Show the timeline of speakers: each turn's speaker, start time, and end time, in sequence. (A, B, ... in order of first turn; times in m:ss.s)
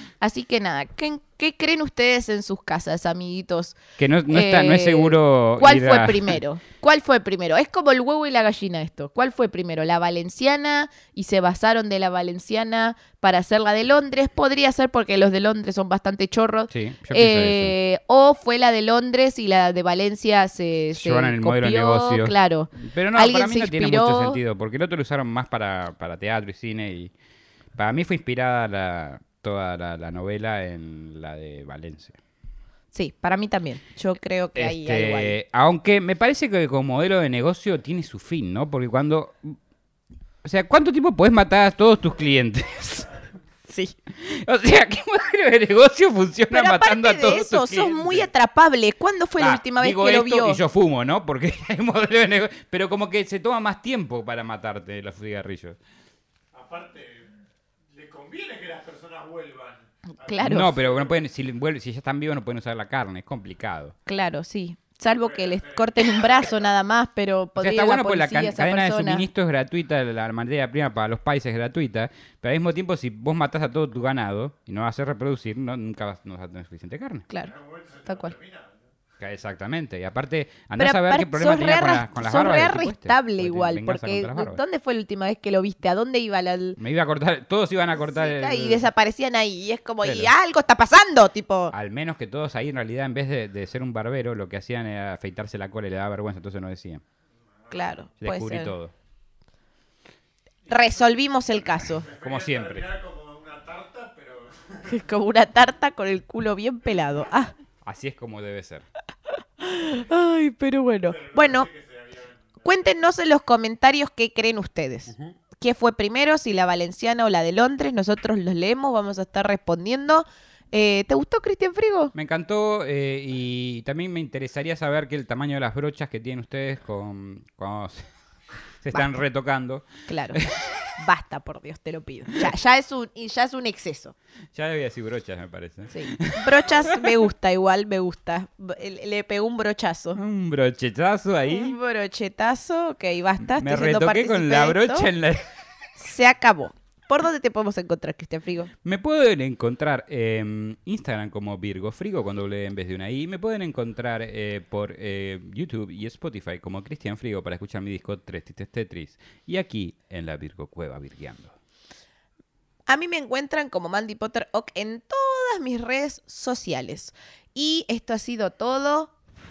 0:00.2-0:24.4 A
0:04.0-0:06.4 B
0:16.7-0:17.8 B
0:20.9-0:27.1 B
0:27.8-0:32.2 B
0:32.9-0:35.4 A
0:34.6-0:39.6 B
0:40.4-0:43.1 B
0:43.7-0:44.0 A
0:44.2-0:48.3 B
0:46.5-0:50.6 A
0:49.4-0:55.8 B
0:56.5-0:57.3 C
0:57.9-1:01.2 C
1:00.2-1:00.7 A
1:00.4-1:04.0 B
1:04.1-1:09.2 A
1:05.2-1:06.7 C
1:07.6-1:17.3 B
1:17.4-1:18.8 C
1:18.1-1:18.4 A
1:19.2-1:24.6 B
1:20.8-1:26.8 A
1:26.8-1:28.9 B
1:28.0-1:31.7 A
1:30.0-1:30.3 B
1:31.7-1:37.0 B
1:37.7-1:38.7 A
1:38.2-1:38.9 B
1:40.7-1:42.1 A
1:40.7-1:41.0 C
1:42.0-1:44.9 C
1:42.1-1:42.9 B
1:44.9-1:47.5 A
1:47.8-1:48.8 B
1:49.6-1:51.7 A
1:51.1-1:52.7 C
1:52.6-2:02.1 A
2:02.2-2:08.1 B
2:08.8-2:10.9 B
2:10.1-2:10.4 A
2:11.0-2:14.2 A
2:14.5-2:17.1 B
2:15.9-2:20.2 A
2:20.2-2:21.8 B
2:21.5-2:25.1 A
2:23.4-2:25.5 B
2:26.0-2:28.7 A
2:28.8-2:41.5 B
2:42.9-2:49.2 A